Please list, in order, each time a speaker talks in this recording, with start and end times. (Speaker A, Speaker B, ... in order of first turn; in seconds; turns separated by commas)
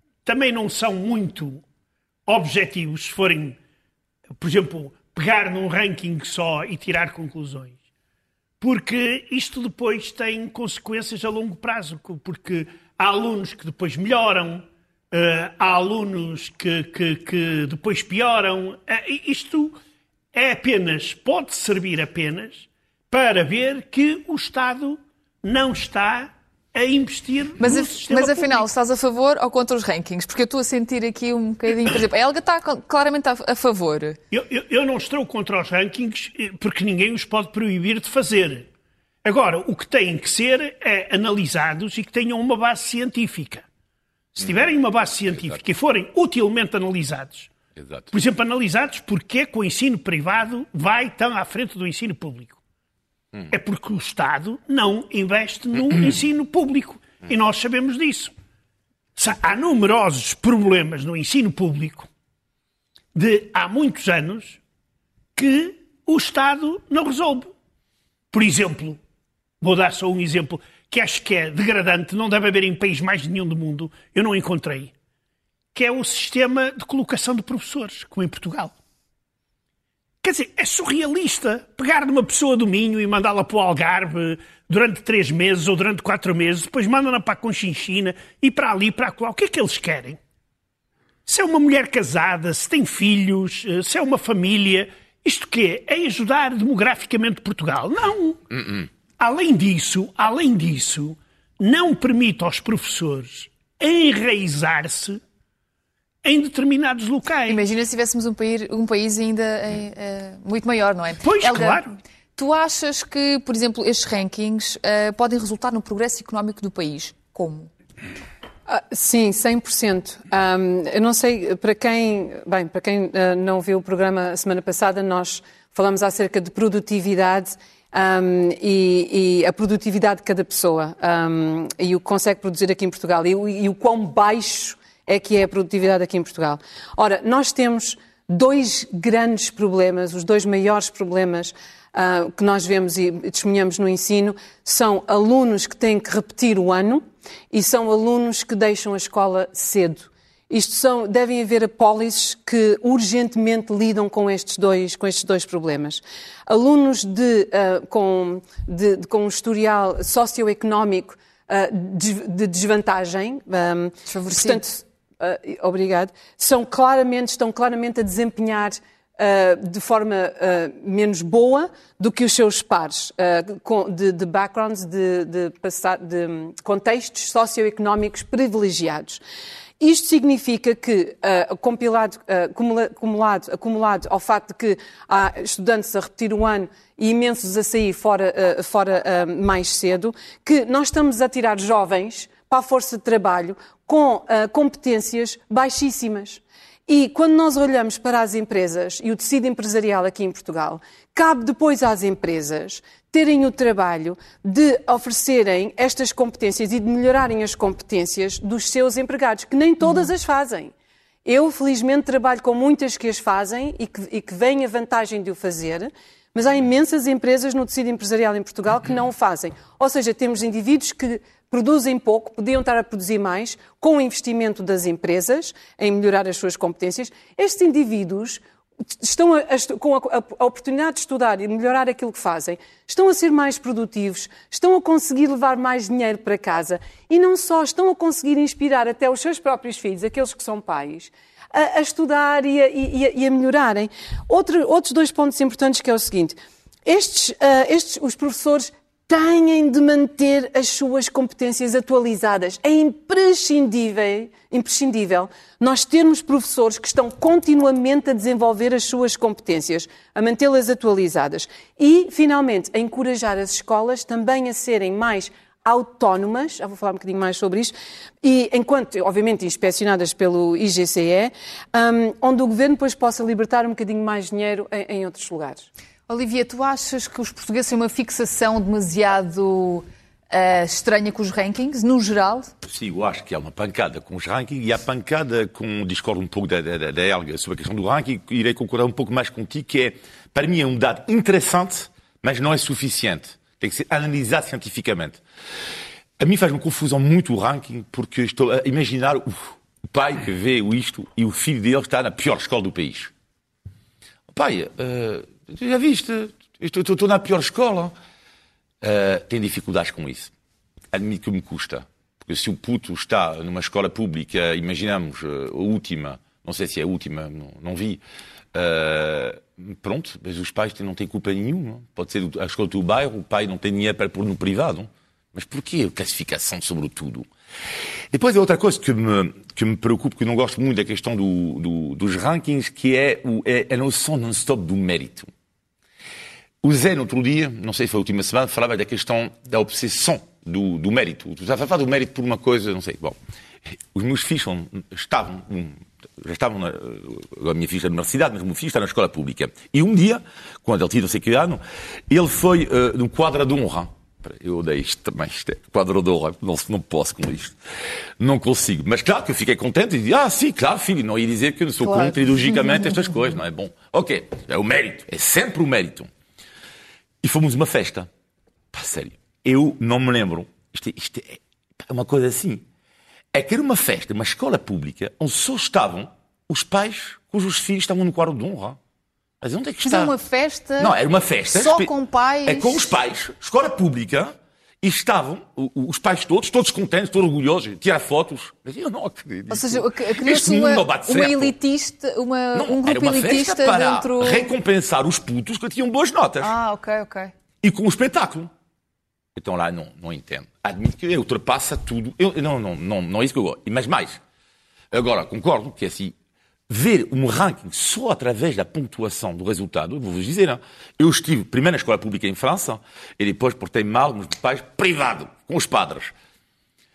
Speaker A: 0.2-1.6, Speaker A: 2.3-3.6, Speaker A: 4.4-7.8, Speaker A: 8.6-19.8, Speaker A: 20.3-28.6, Speaker B: 27.6-34.2, Speaker A: 34.3-38.7, Speaker A: 39.2-43.6, Speaker A: 44.3-47.5, Speaker C: 47.8-48.1, Speaker A: 48.1-52.6, Speaker A: 53.5-58.3, Speaker A: 59.2-62.1, Speaker A: 63.1-64.6, Speaker A: 65.4-67.5, Speaker A: 68.3-69.0, Speaker A: 69.6-74.9, Speaker A: 75.7-78.7, Speaker A: 80.2-90.2, Speaker A: 91.3-98.4, Speaker A: 99.2-105.2, Speaker A: 106.2-107.7, Speaker B: 107.5-117.7, Speaker A: 111.2-111.9, Speaker D: 118.7-179.2, Speaker B: 164.1-164.6, Speaker D: 179.8-210.7, Speaker D: 211.2-228.4, Speaker D: 229.0-275.7, Speaker B: 276.1-282.5, Speaker C: 282.6-295.2, Speaker C: 296.2-303.1, Speaker C: 304.3-307.9, Speaker C: 308.8-310.3, Speaker C: 310.9-318.0, Speaker C: 318.5-327.3, Speaker C: 328.1-335.3, Speaker C: 336.6-343.2, Speaker C: 343.7-357.6, Speaker C: 358.2-366.1, Speaker B: 361.9-362.2, Speaker C: 367.2-368.1, Speaker C: 368.7-372.6, Speaker C: 373.3-378.8, Speaker C: 379.4-380.1, Speaker B: 379.9-380.9, Speaker C: 380.8-381.9, Speaker B: 381.5-382.9, Speaker C: 382.5-391.5, Speaker B: 389.5-394.5, Speaker C: 392.5-396.5, Speaker B: 396.4-397.3, Speaker C: 397.6-398.5, Speaker C: 399.4-404.2, Speaker C: 404.9-406.1, Speaker C: 406.7-416.1